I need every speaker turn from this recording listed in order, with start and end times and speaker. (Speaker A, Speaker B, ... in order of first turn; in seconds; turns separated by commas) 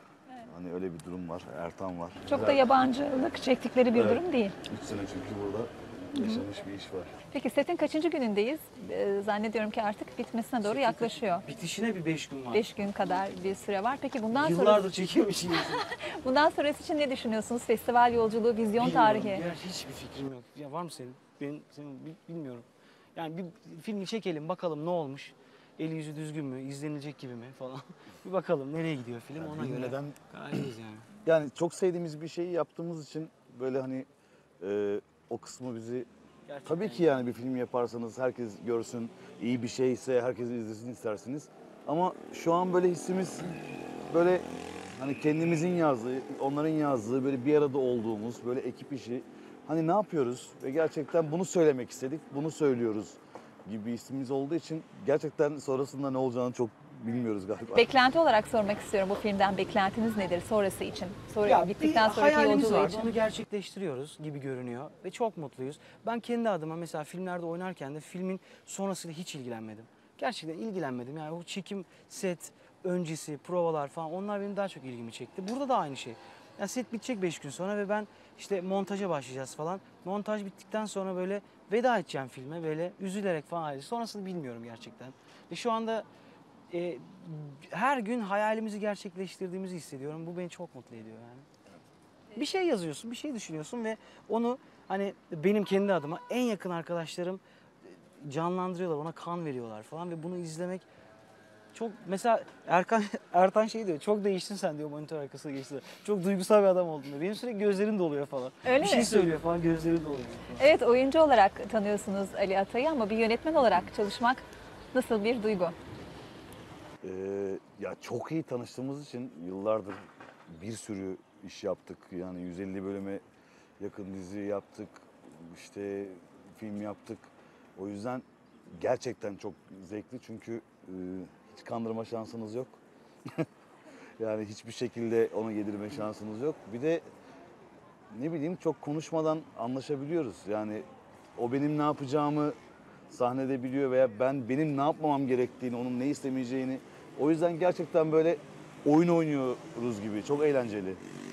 Speaker A: 0.4-2.6, Speaker B: 2.2-4.5, Speaker A: 3.9-7.1, Speaker B: 6.2-6.4, Speaker B: 7.3-11.4, Speaker C: 10.6-12.7, Speaker B: 12.5-14.8, Speaker C: 14.3-15.8, Speaker B: 15.8-19.4, Speaker C: 18.8-31.1, Speaker A: 29.4-30.1, Speaker A: 31.2-34.1, Speaker A: 34.6-36.1, Speaker C: 36.5-37.1, Speaker A: 36.6-43.5, Speaker A: 44.1-44.5, Speaker A: 45.0-57.9, Speaker B: 57.7-63.1, Speaker C: 61.4-86.0, Speaker C: 86.7-91.5, Speaker C: 92.3-100.8, Speaker C: 101.7-110.7, Speaker B: 108.6-109.1, Speaker B: 110.6-115.7, Speaker A: 117.0-123.2, Speaker A: 123.8-133.4, Speaker A: 134.2-137.0, Speaker A: 138.1-142.6, Speaker A: 143.1-151.0